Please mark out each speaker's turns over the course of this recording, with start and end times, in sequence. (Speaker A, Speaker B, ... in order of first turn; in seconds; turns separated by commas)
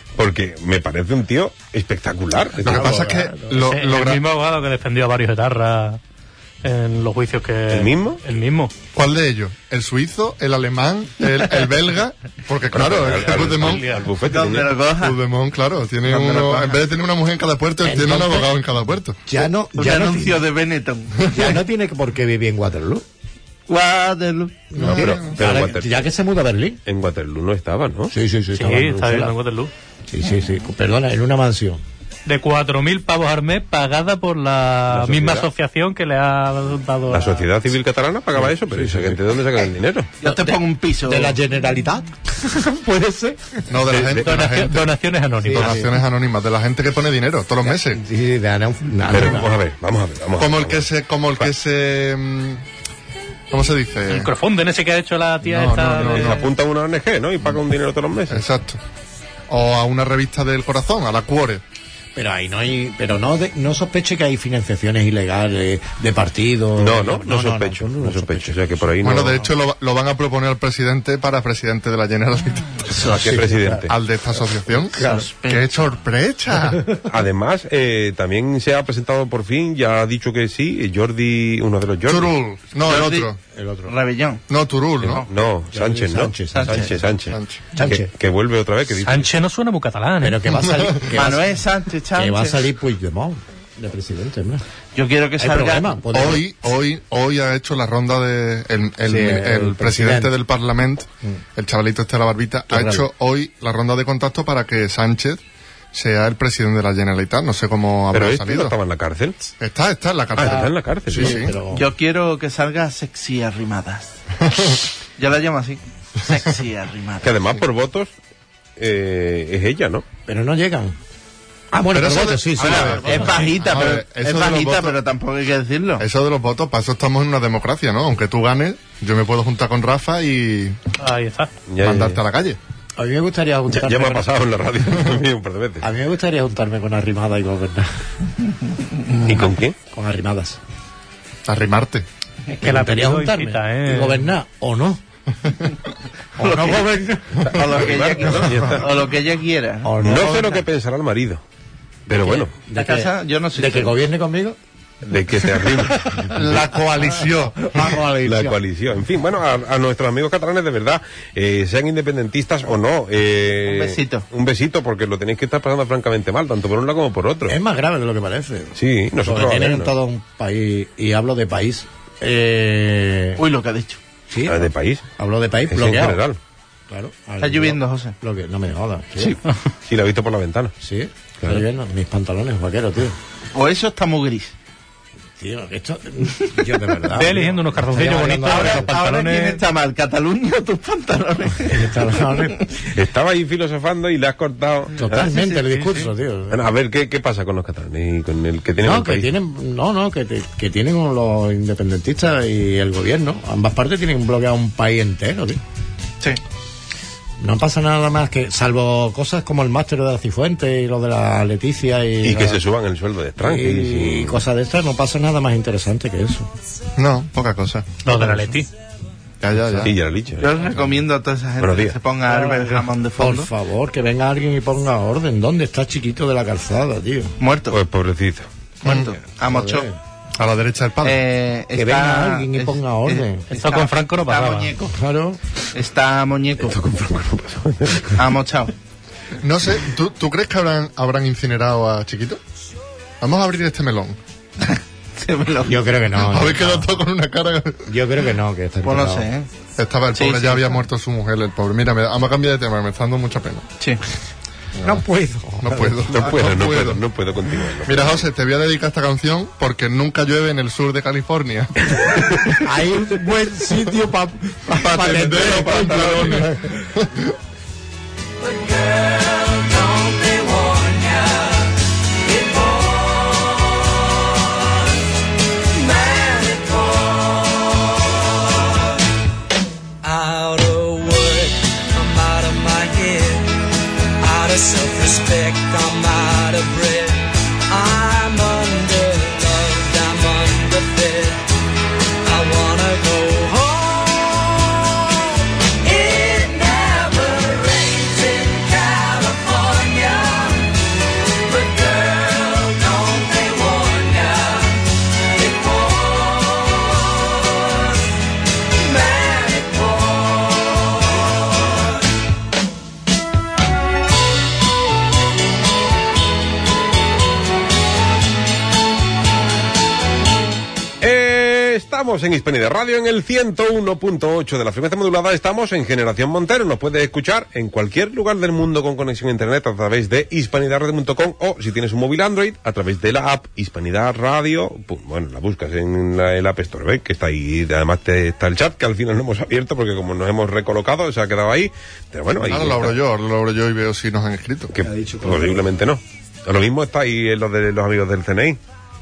Speaker A: 0.2-2.9, Speaker B: 2.6-4.2, Speaker C: 2.6-3.6, Speaker D: 3.5-6.0, Speaker D: 6.6-8.7, Speaker A: 7.7-8.2, Speaker B: 8.9-13.8, Speaker A: 12.7-14.7, Speaker D: 13.5-14.1, Speaker E: 14.2-15.2, Speaker B: 15.0-19.2, Speaker E: 16.1-16.7, Speaker C: 17.8-18.5, Speaker C: 19.3-20.5, Speaker E: 19.8-21.5, Speaker C: 21.3-23.0, Speaker E: 23.7-24.6, Speaker C: 24.7-26.8, Speaker B: 24.8-25.4, Speaker A: 24.8-25.9, Speaker A: 26.9-28.1, Speaker C: 28.1-29.4, Speaker D: 28.6-29.7, Speaker C: 30.1-31.8, Speaker D: 32.3-37.4, Speaker A: 34.9-35.5, Speaker A: 37.1-40.1, Speaker C: 38.4-39.2, Speaker E: 40.2-41.4, Speaker C: 40.2-43.6, Speaker B: 43.7-44.9, Speaker A: 43.9-44.4, Speaker D: 44.1-45.8, Speaker C: 45.4-45.9, Speaker B: 45.5-48.0, Speaker C: 47.7-49.5, Speaker A: 49.1-51.5, Speaker B: 50.4-52.6, Speaker B: 53.5-54.3, Speaker D: 54.1-56.5, Speaker B: 55.4-56.4, Speaker A: 56.0-58.5, Speaker B: 58.3-58.8, Speaker B: 59.5-61.6, Speaker C: 62.2-68.9, Speaker A: 66.8-69.4, Speaker B: 69.0-72.8, Speaker A: 73.0-73.9, Speaker C: 73.1-73.8, Speaker B: 73.8-76.9, Speaker E: 74.9-75.7, Speaker A: 77.1-82.4, Speaker B: 82.1-83.4, Speaker E: 82.8-83.3, Speaker C: 83.5-83.9, Speaker E: 83.9-84.4, Speaker B: 84.5-85.3, Speaker A: 85.0-89.3, Speaker C: 85.7-86.9, Speaker E: 86.5-86.9, Speaker B: 87.3-87.7, Speaker C: 87.8-88.1, Speaker D: 89.1-90.5, Speaker C: 90.2-91.6, Speaker E: 91.1-92.6, Speaker C: 92.2-94.6, Speaker E: 95.0-95.9, Speaker C: 95.4-96.5, Speaker B: 96.1-105.4, Speaker C: 99.1-100.3, Speaker C: 102.7-103.1, Speaker B: 105.9-108.8, Speaker A: 108.1-109.5, Speaker B: 109.6-111.6, Speaker A: 110.4-111.4, Speaker C: 110.4-111.9, Speaker E: 111.7-114.1, Speaker B: 114.4-114.8, Speaker E: 115.2-117.3, Speaker A: 117.2-118.1, Speaker A: 118.8-120.1, Speaker C: 120.3-121.0, Speaker C: 121.7-123.5, Speaker B: 121.9-125.0, Speaker E: 122.6-126.0, Speaker B: 126.0-130.8, Speaker D: 131.0-131.5, Speaker A: 131.7-132.2, Speaker B: 131.8-132.6, Speaker C: 133.0-134.3, Speaker A: 133.7-135.8, Speaker C: 135.8-137.9, Speaker A: 139.2-139.8, Speaker C: 139.9-140.6, Speaker B: 141.5-142.1, Speaker C: 142.5-145.0, Speaker D: 142.6-144.3, Speaker C: 146.4-147.6, Speaker E: 146.4-150.6, Speaker A: 147.5-148.9, Speaker B: 148.4-148.7, Speaker C: 149.8-150.5, Speaker A: 150.0-151.4, Speaker A: 152.1-152.5, Speaker C: 152.1-154.6, Speaker E: 152.7-153.9, Speaker A: 155.0-156.6, Speaker C: 156.1-156.4, Speaker B: 156.3-158.0, Speaker C: 157.2-158.6, Speaker A: 158.2-167.6, Speaker E: 163.7-164.2, Speaker C: 167.5-173.4, Speaker A: 168.8-169.9, Speaker E: 173.4-174.0, Speaker C: 174.3-176.2, Speaker A: 174.5-175.1, Speaker A: 175.7-176.4, Speaker C: 176.9-179.4, Speaker E: 177.4-178.2, Speaker A: 179.9-180.7, Speaker C: 180.8-183.2, Speaker E: 183.6-184.5, Speaker C: 185.4-188.9, Speaker D: 187.1-189.6, Speaker E: 188.5-192.7, Speaker C: 191.7-192.7, Speaker A: 192.9-195.3, Speaker C: 195.0-196.6, Speaker E: 195.1-196.1, Speaker A: 196.5-199.3, Speaker C: 198.8-205.6, Speaker C: 207.4-212.6, Speaker A: 212.2-214.4, Speaker C: 213.4-216.5, Speaker B: 217.0-217.9, Speaker D: 218.0-218.7, Speaker C: 218.1-218.5, Speaker B: 219.4-219.9, Speaker C: 219.6-219.9, Speaker A: 219.8-220.6, Speaker E: 220.4-223.5, Speaker A: 221.6-222.0, Speaker C: 222.3-227.3, Speaker E: 227.4-227.8, Speaker A: 227.7-228.5, Speaker E: 228.8-229.9, Speaker B: 228.8-229.1, Speaker C: 229.4-230.0, Speaker B: 230.4-231.2, Speaker E: 231.0-235.0, Speaker C: 231.8-233.5, Speaker D: 233.5-234.8, Speaker C: 234.9-235.4, Speaker E: 235.7-236.8, Speaker A: 236.6-238.2, Speaker E: 238.2-238.7, Speaker B: 239.4-242.4, Speaker B: 243.2-244.2, Speaker E: 244.6-245.8, Speaker C: 245.7-246.9, Speaker B: 246.2-247.9, Speaker C: 247.9-249.3, Speaker E: 248.8-249.5, Speaker B: 249.8-253.7, Speaker E: 250.2-250.8, Speaker B: 254.8-255.0, Speaker C: 254.8-256.1, Speaker B: 255.6-257.1, Speaker A: 256.1-258.2, Speaker B: 257.8-262.2, Speaker C: 262.6-266.7, Speaker B: 264.7-267.3, Speaker A: 265.2-266.4, Speaker F: 268.4-271.7, Speaker F: 272.2-273.8, Speaker F: 275.7-278.0, Speaker F: 280.0-283.5, Speaker F: 284.2-291.4, Speaker F: 292.2-295.1, Speaker F: 295.8-300.7, Speaker F: 301.5-304.8, Speaker F: 305.3-307.8, Speaker F: 308.8-310.9, Speaker A: 321.0-343.0, Speaker B: 342.4-344.8, Speaker A: 344.7-348.6, Speaker C: 344.8-345.6